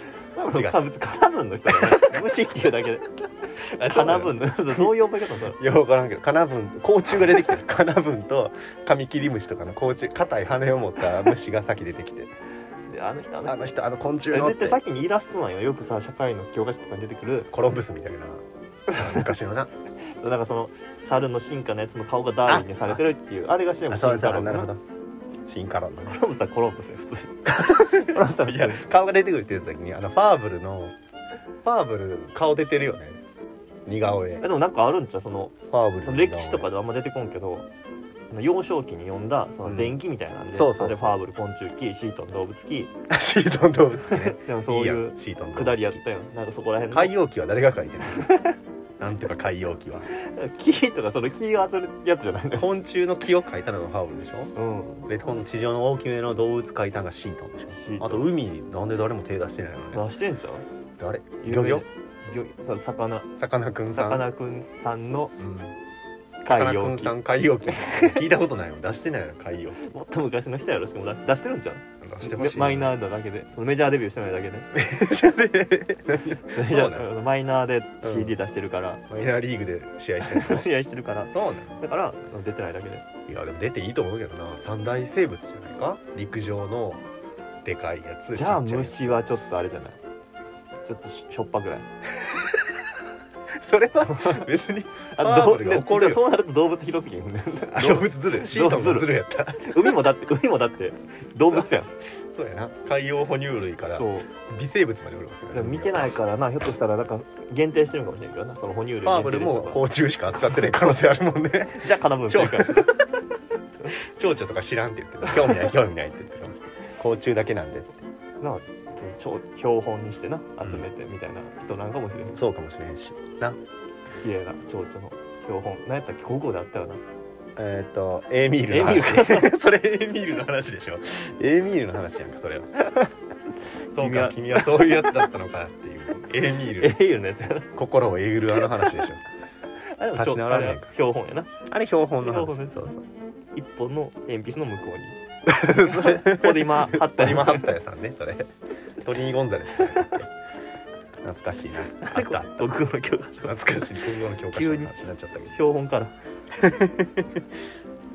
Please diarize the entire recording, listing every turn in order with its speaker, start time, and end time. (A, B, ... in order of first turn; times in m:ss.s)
0:00.3-0:03.0 A
0:00.5-0:00.8 B
0:01.7-0:02.2 B
0:03.6-0:04.9 B
0:03.8-0:05.6 A
0:05.6-0:12.3 B
0:12.9-0:13.7 A
0:13.4-0:14.8 B
0:14.3-0:17.5 A
0:17.5-0:19.7 B
0:20.2-0:24.7 A
0:22.5-0:23.0 B
0:23.9-0:24.8 B
0:25.4-0:26.2 B
0:26.0-0:28.8 A
0:27.5-0:30.9 B
0:31.6-0:33.2 B
0:33.8-0:34.4 B
0:34.4-0:37.7 A
0:35.7-0:36.7 B
0:38.3-0:42.9 A
0:39.6-0:40.0 B
0:40.5-0:41.2 B
0:43.1-0:46.0 B
0:44.1-0:47.2 A
0:46.9-0:48.4 B
0:48.1-0:48.6 A
0:49.0-0:50.1 B
0:50.1-0:52.8 A
0:52.6-0:54.5 B
0:54.5-0:55.1 A
0:55.0-1:00.0 B
0:57.7-0:58.3 A
0:59.9-1:00.6 A
1:01.0-1:01.8 B
1:01.4-1:03.3 A
1:03.3-1:04.3 B
1:03.9-1:05.3 A
1:05.4-1:05.7 B
1:06.4-1:08.2 A
1:06.5-1:09.8 B
1:09.8-1:14.7 A
1:12.0-1:13.0 B
1:14.7-1:17.1 B
1:16.5-1:19.0 A
1:18.0-1:18.4 B
1:19.1-1:20.6 B
1:20.2-1:23.0 A
1:21.3-1:21.8 B
1:23.3-1:27.0 B
1:27.6-1:29.2 B
1:28.3-1:30.0 A
1:30.8-1:31.9 A
1:32.2-1:32.8 B
1:33.6-1:36.3 B
1:33.9-1:34.5 A
1:35.0-1:41.9 A
1:37.7-1:40.0 B
1:42.3-1:46.1 B
1:43.9-1:44.3 A
1:45.5-1:49.8 A
1:49.0-1:52.9 B
1:51.7-1:53.0 A
1:53.9-1:58.0 B
1:55.4-1:55.7 A
1:58.4-2:02.4 A
2:00.6-2:00.9 B
2:02.3-2:03.6 B
2:04.1-2:07.0 A
2:07.6-2:12.7 B
2:08.7-2:09.5 A
2:12.8-2:13.1 A
2:13.9-2:15.3 A
2:13.9-2:17.0 B
2:16.8-2:17.7 A
2:17.7-2:19.2 B
2:20.0-2:21.6 A
2:20.1-2:20.9 B
2:21.6-2:23.0 B
2:22.2-2:22.8 A
2:23.5-2:25.2 A
2:25.4-2:28.5 B
2:25.7-2:27.7 A
2:29.0-2:30.3 B
2:31.2-2:32.7 B
2:32.0-2:33.8 A
2:33.4-2:35.6 B
2:34.5-2:34.9 A
2:35.5-2:36.1 A
2:36.5-2:37.4 B